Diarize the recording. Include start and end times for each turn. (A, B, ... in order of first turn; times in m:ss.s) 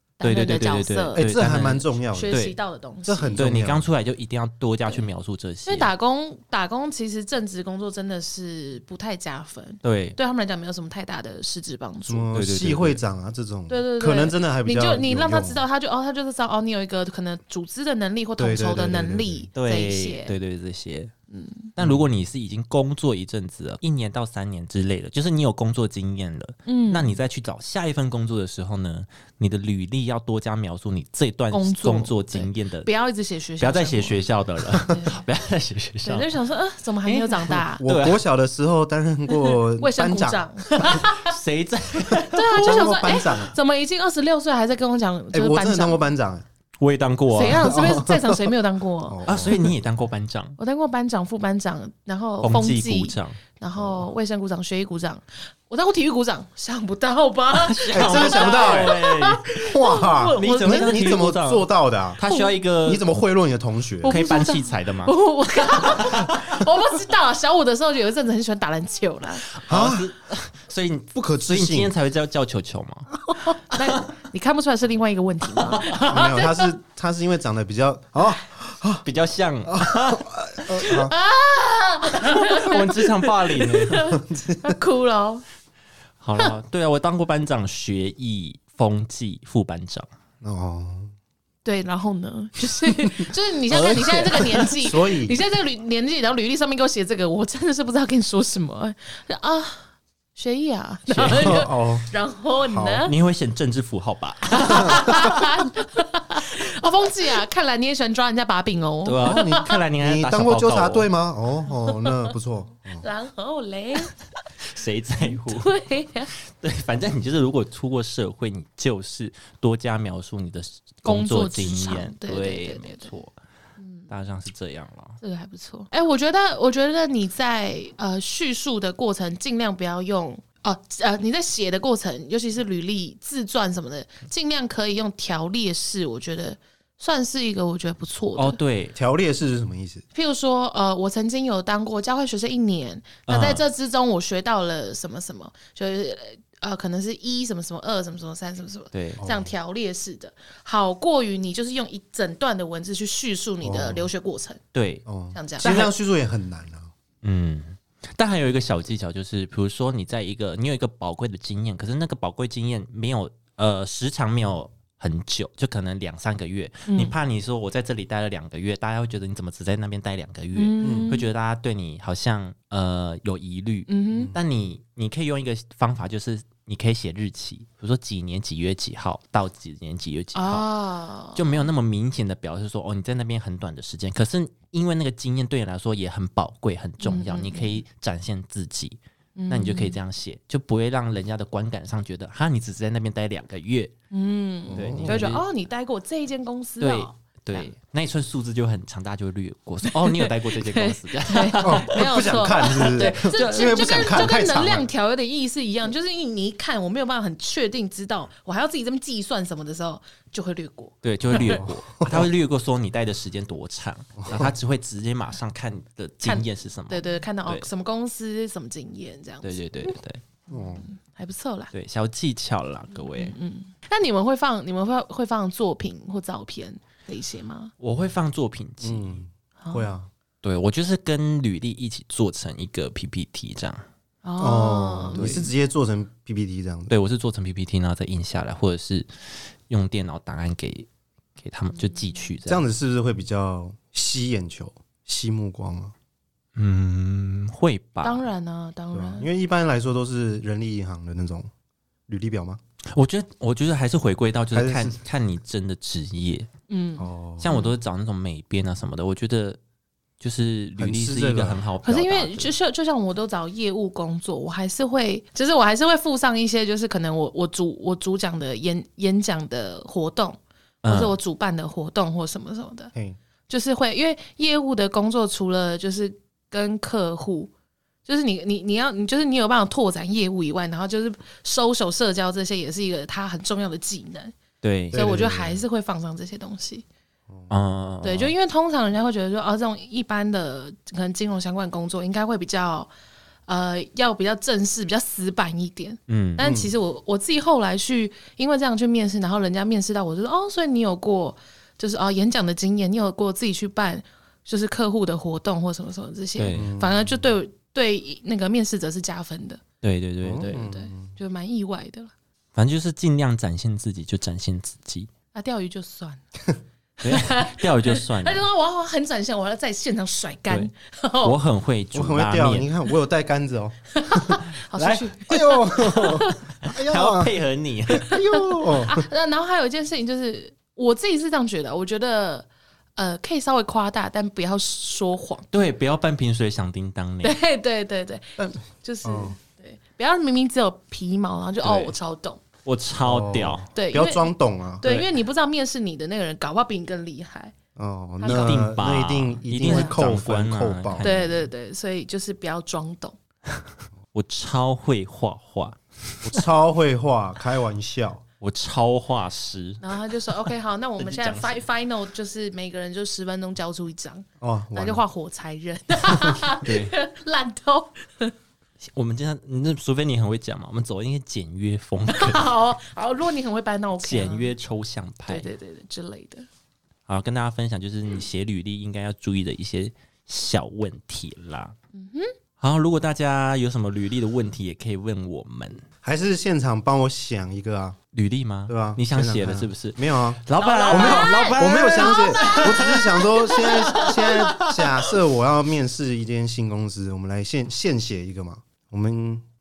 0:00.2-0:01.2 A
0:00.2-0:02.6 B
0:01.1-0:02.4 C
0:02.1-0:03.4 A
0:03.0-0:03.9 C
0:03.4-0:05.9 B
0:05.6-0:12.3 A
0:09.8-0:10.2 B
0:12.0-0:15.6 C
0:12.3-0:13.0 B
0:13.7-0:20.3 A
0:18.4-0:19.5 C
0:19.5-0:21.1 B
0:21.3-0:21.7 A
0:21.8-0:32.9 B
0:21.8-0:22.0 C
0:26.6-0:27.2 A
0:31.5-0:34.2 A
0:33.6-0:36.3 B
0:34.7-0:35.2 A
0:36.0-0:37.8 A
0:37.0-0:38.2 B
0:37.8-0:40.4 C
0:39.3-0:41.4 A
0:40.8-0:42.9 B
0:42.3-0:46.0 A
0:42.6-0:43.5 C
0:45.3-0:46.4 C
0:46.8-0:47.7 B
0:47.3-0:49.3 A
0:47.5-0:48.5 C
0:49.0-0:49.7 C
0:49.3-0:50.6 B
0:50.6-1:01.2 A
0:52.4-0:53.4 B
0:53.8-0:54.0 C
0:57.5-0:59.7 B
0:57.9-0:59.0 C
0:59.6-1:02.2 C
1:00.3-1:03.0 B
1:02.3-1:02.5 A
1:02.8-1:04.2 C
1:04.0-1:09.4 A
1:04.0-1:05.1 B
1:05.7-1:06.6 B
1:09.5-1:13.2 B
1:09.7-1:10.1 C
1:11.1-1:11.9 C
1:13.4-1:16.7 A
1:16.0-1:19.0 C
1:19.0-1:20.2 B
1:19.6-1:21.1 C
1:20.8-1:25.4 A
1:22.3-1:24.0 B
1:24.2-1:24.7 C
1:26.2-1:30.1 B
1:30.4-1:31.1 C
1:31.6-1:43.1 A
1:33.7-1:34.7 B
1:34.6-1:35.4 C
1:41.1-1:41.6 B
1:41.3-1:42.1 C
1:42.7-1:43.0 C
1:43.0-1:45.4 B
1:44.5-1:49.8 A
1:49.0-1:51.1 B
1:49.2-1:53.0 C
1:51.8-1:52.3 A
1:53.0-1:54.1 A
1:54.7-1:55.8 B
1:55.3-1:56.3 A
1:56.3-2:03.3 B
2:01.0-2:03.1 A
2:03.8-2:04.1 A
2:04.1-2:05.2 B
2:05.2-2:18.6 A
2:18.4-2:19.0 B
2:18.9-2:20.0 C
2:20.1-2:34.6 A
2:23.3-2:23.6 B
2:28.9-2:29.2 B
2:29.2-2:29.5 C
2:33.6-2:34.1 C
2:34.7-2:35.0 B
2:35.0-2:36.9 C
2:35.3-2:35.7 A
2:35.6-2:35.9 B
2:37.2-3:00.7 B
2:46.9-2:47.1 A
2:50.5-2:51.3 A
2:50.8-2:51.1 C
2:53.9-2:54.3 A
3:00.3-3:01.7 A
3:01.3-3:09.0 B
3:07.0-3:07.8 A
3:09.4-3:10.0 A
3:09.5-3:13.9 B
3:14.1-3:17.7 A
3:14.7-3:15.3 C
3:14.7-3:15.4 B
3:16.8-3:24.3 B
3:19.8-3:31.6 A
3:21.6-3:24.9 C
3:31.0-3:37.7 B
3:31.4-3:32.3 C
3:34.2-3:34.5 C
3:36.2-3:39.6 A
3:39.4-3:40.2 B
3:40.5-3:40.8 C
3:40.5-3:41.7 A
3:41.7-3:43.4 B
3:43.0-3:47.7 A
3:47.8-3:49.2 B
3:48.8-3:50.1 C
3:49.6-3:49.9 A
3:50.4-3:53.8 B
3:54.2-3:55.4 A
3:54.4-3:56.9 C
3:55.1-3:55.5 B
3:56.9-3:59.1 B
3:59.7-4:02.6 B
4:02.4-4:05.9 C
4:06.6-4:08.2 B
4:08.0-4:09.3 A
4:08.9-4:11.5 C
4:12.1-4:12.6 C
4:12.9-4:16.5 B
4:14.5-4:15.0 C
4:16.7-4:17.7 A
4:17.0-4:17.5 C
4:17.4-4:19.6 B
4:20.2-4:22.5 B
4:20.8-4:21.6 C
4:21.8-4:32.9 A
4:30.8-4:31.1 B
4:33.5-4:37.5 A
4:38.0-4:44.3 A
4:44.6-4:45.0 B
4:44.9-4:45.6 C
4:44.9-4:46.8 A
4:47.5-4:48.3 B
4:48.0-4:52.9 A
4:53.5-5:09.6 A
4:56.1-4:56.4 B
4:56.4-4:56.7 C
5:06.4-5:06.7 B
5:06.5-5:07.3 C
5:09.8-5:10.6 B
5:10.2-5:11.1 C
5:10.4-5:12.1 A
5:12.5-5:15.1 B
5:15.3-5:16.2 A
5:17.0-5:21.4 A
5:17.0-5:18.4 B
5:21.2-5:22.7 B
5:21.9-5:24.4 C
5:23.9-5:26.4 A
5:24.8-5:25.1 B
5:25.1-5:27.4 C
5:25.9-5:28.2 B
5:27.9-5:29.1 C
5:28.0-5:35.5 A
5:35.5-5:37.4 B
5:37.2-5:42.4 A
5:38.4-5:39.4 C
5:41.6-5:41.9 B
5:42.6-5:43.6 B
5:43.0-5:44.8 C
5:43.7-5:47.5 A
5:47.8-5:51.0 C
5:48.2-5:48.6 A
5:48.2-5:51.5 B
5:49.6-5:49.9 A
5:51.0-5:53.2 A
5:54.1-5:56.4 B
5:56.2-5:58.2 C
5:58.4-6:00.3 B
5:59.8-6:08.3 A
6:01.0-6:01.6 B
6:04.4-6:05.0 C
6:06.5-6:07.0 B
6:08.8-6:12.4 B
6:12.1-6:14.5 A
6:14.0-6:15.5 B
6:15.3-6:16.5 A
6:17.1-6:21.8 B
6:21.9-6:22.3 A
6:22.6-6:25.8 B
6:26.0-6:28.0 C
6:28.1-6:35.1 B
6:28.7-6:39.4 C
6:30.6-6:34.1 A